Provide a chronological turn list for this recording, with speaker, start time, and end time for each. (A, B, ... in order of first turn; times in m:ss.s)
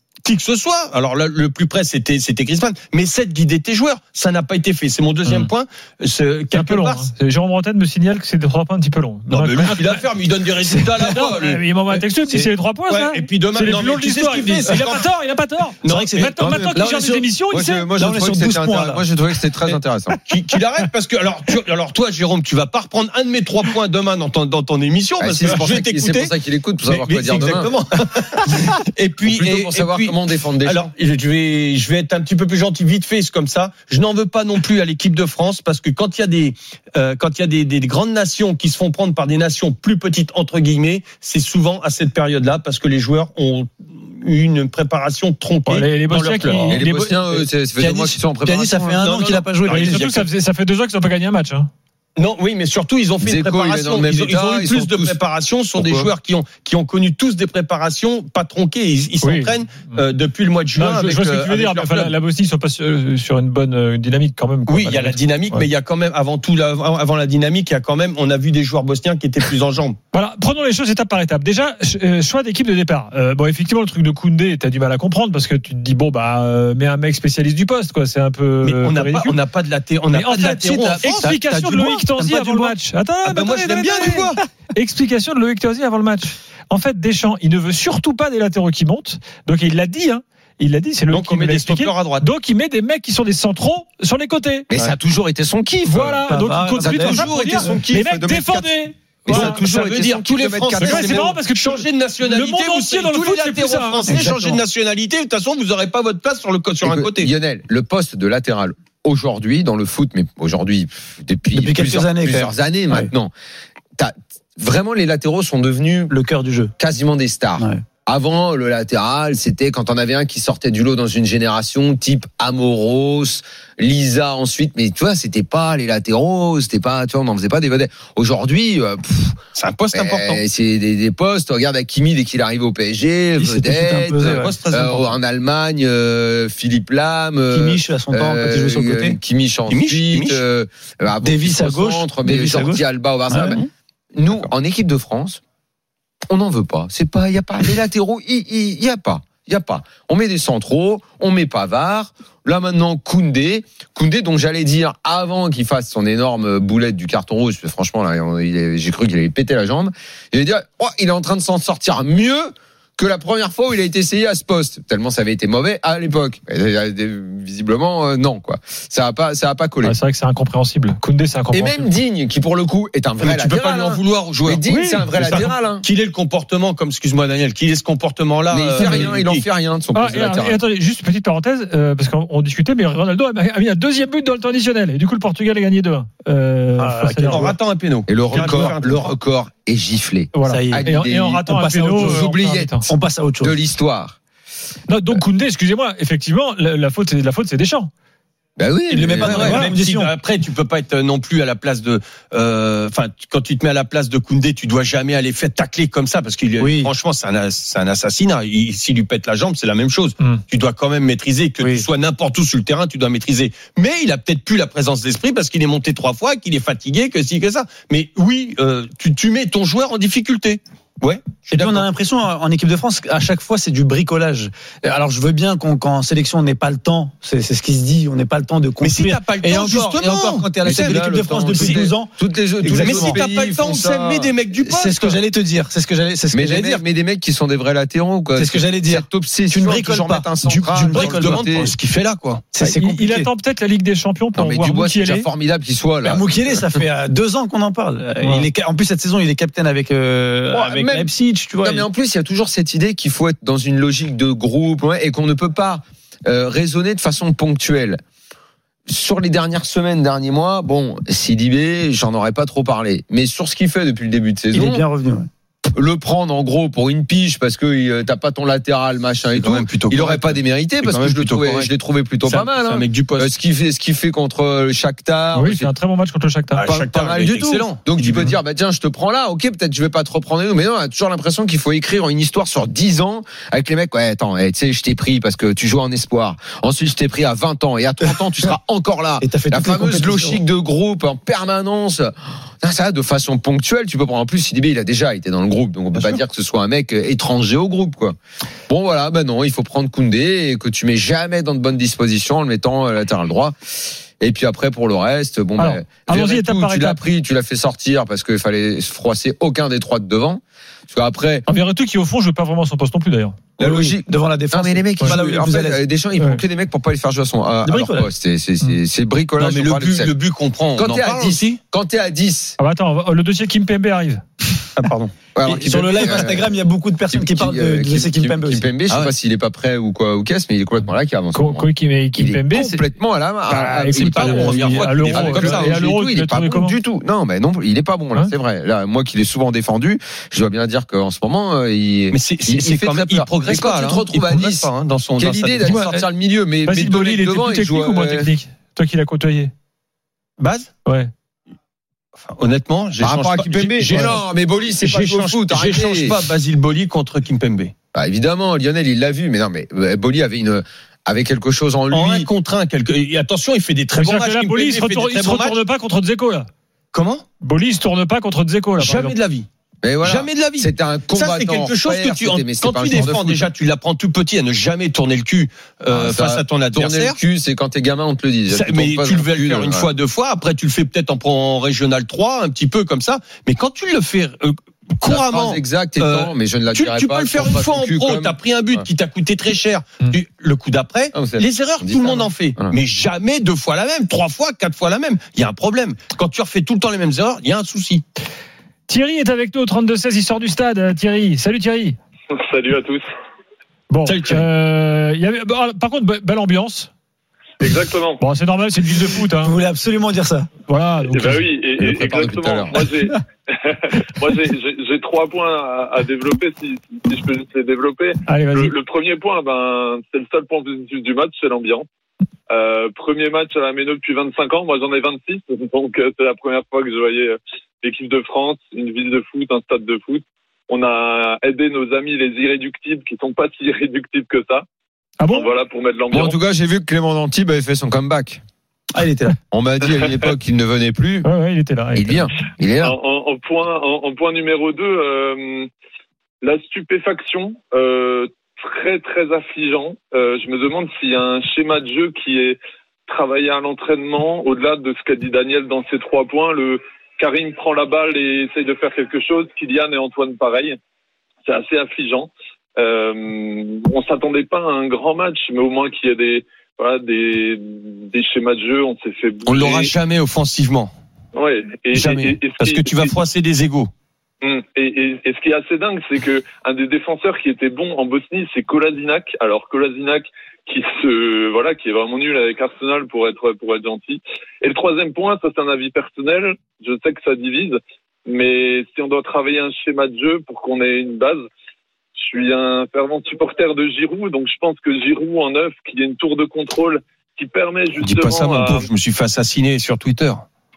0:00.3-0:07.1 A
0:05.3-0:05.5 B
0:06.5-0:10.0 B
0:09.3-0:12.0 A
0:11.0-0:17.9 B
0:12.2-0:12.5 C
0:12.9-0:15.0 A
0:14.5-0:14.9 C
0:15.8-0:16.4 A
0:15.9-0:16.3 C
0:16.4-0:20.2 D
0:17.0-0:17.3 C
0:18.0-0:19.1 C
0:20.3-0:26.3 A
0:25.2-0:27.7 D
0:26.8-0:46.8 A
0:29.2-0:30.9 D
0:45.7-0:47.4 B
0:46.7-0:49.0 D
0:47.8-0:50.2 C
0:49.0-0:50.2 A
0:49.7-0:51.7 B
0:52.2-1:02.1 A
0:53.2-0:55.2 D
0:55.7-0:56.1 D
0:59.2-0:59.9 B
1:00.7-1:05.7 B
1:04.7-1:10.0 A
1:10.1-1:19.4 B
1:18.6-1:24.4 A
1:20.1-1:34.7 B
1:31.1-1:32.3 A
1:34.7-1:36.2 D
1:35.8-1:39.7 B
1:36.2-1:37.8 C
1:36.8-1:41.4 D
1:39.3-1:47.3 A
1:40.8-1:44.2 B
1:44.1-1:44.6 C
1:46.8-1:53.3 D
1:51.5-1:53.1 C
1:54.0-1:56.1 D
1:56.1-1:56.7 C
1:56.8-2:09.4 D
1:57.6-1:57.8 C
2:09.6-2:10.4 A
2:09.9-2:23.6 D
2:13.4-2:14.6 C
2:14.2-2:15.2 A
2:17.5-2:19.2 C
2:19.7-2:20.4 A
2:21.2-2:23.6 C
2:24.2-2:25.4 D
2:26.3-2:50.0 D
2:49.8-2:51.9 B
2:51.5-2:55.9 D
2:53.2-2:54.6 A
2:54.7-2:55.4 B
2:55.2-2:59.4 A
2:58.5-3:00.6 D
2:58.8-2:59.1 B
2:59.9-3:07.5 B
3:06.8-3:07.6 C
3:07.3-3:09.1 A
3:08.1-3:11.4 D
3:08.3-3:08.6 B
3:10.3-3:12.9 B
3:10.4-3:12.3 C
3:12.0-3:12.9 D
3:12.8-3:13.6 C
3:13.4-3:14.2 D
3:14.9-3:17.9 B
3:18.6-3:19.6 D
3:18.9-3:20.1 C
3:19.2-3:41.9 A
3:19.4-3:19.7 B
3:26.6-3:26.9 C
3:31.6-3:31.9 C
3:41.4-3:53.2 C
3:48.8-3:51.8 A
3:50.6-3:54.4 D
3:52.8-3:55.2 A
3:54.5-3:56.8 C
3:56.3-4:01.7 D
3:58.4-4:01.7 C
4:00.9-4:02.4 A
4:02.5-4:03.3 C
4:02.6-4:05.3 B
4:04.4-4:06.7 D
4:06.0-4:11.9 C
4:08.2-4:08.5 B
4:10.5-4:11.1 D
4:11.6-4:18.0 D
4:18.9-4:24.8 D
4:24.5-4:25.3 C
4:25.7-4:35.7 D
4:29.3-4:31.7 A
4:32.2-4:33.3 A
4:35.3-4:36.7 B
4:36.5-4:38.3 A
4:36.7-4:58.2 D
4:49.2-4:50.4 C
4:58.7-5:03.6 D
5:04.2-5:11.5 D
5:05.6-5:07.0 B
5:11.5-5:13.4 B
5:13.6-5:15.8 C
5:13.6-5:20.1 D
5:16.2-5:16.4 B
5:17.6-5:18.1 C
5:19.4-5:21.6 A
5:20.8-5:22.6 D
5:22.6-5:24.2 B
5:24.8-5:25.1 A
5:25.4-5:26.5 D
5:25.4-5:28.7 C
5:27.1-5:48.3 D
5:31.3-5:32.8 B
5:33.5-5:36.8 B
5:34.0-5:35.8 A
5:42.1-5:45.8 A
5:45.6-5:46.0 B
5:46.6-5:49.5 B
5:50.4-5:50.7 A
5:52.2-5:57.7 A
5:53.0-5:56.2 D
5:57.9-6:02.3 D
6:01.9-6:05.6 A
6:03.9-6:06.5 B
6:06.9-6:07.2 A
6:07.4-6:09.2 B
6:08.8-6:09.5 A
6:09.8-6:13.5 D
6:10.0-6:17.2 A
6:15.9-6:19.9 D
6:18.5-6:38.0 A
6:25.0-6:28.9 D
6:31.1-6:32.8 D
6:38.9-6:42.0 B
6:42.3-6:43.0 E
6:43.9-6:46.9 B
6:44.1-6:44.5 A
6:47.6-6:48.2 E
6:48.2-6:49.5 B
6:49.4-6:50.5 C
6:50.7-6:51.5 B
6:51.1-7:01.8 E
6:51.8-6:52.9 D
6:58.3-6:58.7 B
7:02.5-7:14.6 E
7:15.2-7:15.5 B
7:15.3-7:16.4 E
7:16.1-7:18.4 D
7:18.9-7:19.4 C
7:19.5-7:21.3 D
7:21.2-7:22.3 B
7:22.0-7:22.9 D
7:22.8-7:25.7 E
7:26.4-7:40.8 E
7:41.5-7:49.9 E
7:49.4-7:50.9 A
7:51.4-7:53.2 E
7:51.9-7:53.9 A
7:54.4-8:07.8 E
8:08.3-8:11.4 E
8:12.2-8:18.9 E
8:18.0-8:20.4 A